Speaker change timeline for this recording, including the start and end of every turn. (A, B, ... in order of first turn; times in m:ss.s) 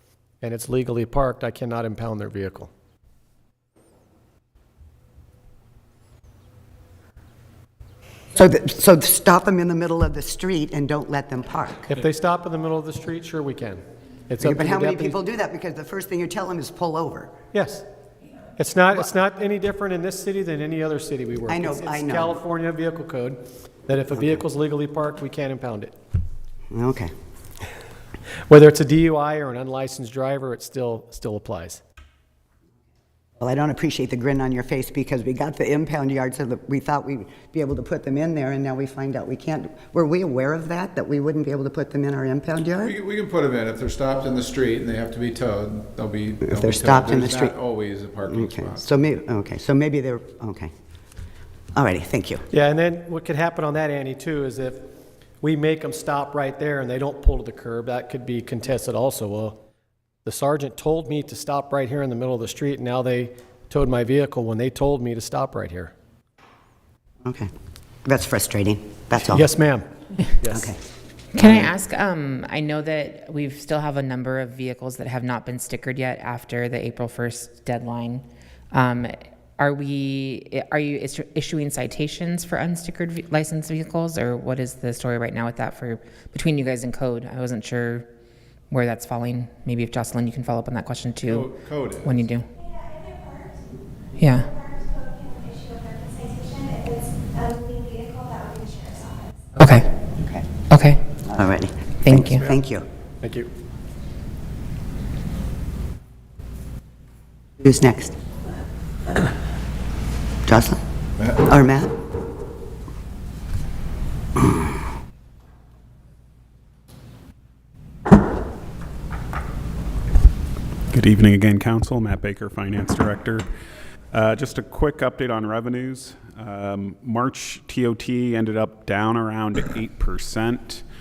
0:00.4-0:02.7 A
0:08.3-0:11.9 B
0:11.9-0:15.2 A
0:14.4-0:17.3 B
0:17.5-0:17.8 A
0:18.6-0:26.0 A
0:21.5-0:22.4 B
0:26.7-0:27.1 B
0:28.5-0:31.8 A
0:33.4-0:43.0 B
0:42.8-0:48.9 C
0:46.4-0:47.6 B
0:48.3-0:50.7 B
0:51.8-0:52.4 B
0:52.5-0:54.9 A
0:55.4-0:59.6 A
1:00.2-1:05.9 A
1:07.2-1:07.5 B
1:08.0-1:09.5 B
1:09.2-1:09.9 A
1:10.4-1:10.7 A
1:10.5-1:10.8 B
1:11.3-1:28.1 D
1:11.4-1:11.7 B
1:28.7-1:31.5 D
1:31.3-1:32.3 C
1:32.0-1:32.4 D
1:34.2-1:34.5 D
1:39.6-1:39.9 D
1:40.2-1:40.4 B
1:40.7-1:41.1 D
1:41.2-1:42.9 B
1:42.0-1:42.4 D
1:43.2-1:43.5 A
1:47.6-1:48.1 B
1:50.5-1:50.8 B
1:51.4-1:52.0 B
2:00.9-2:03.4 E
2:04.1-2:10.8 E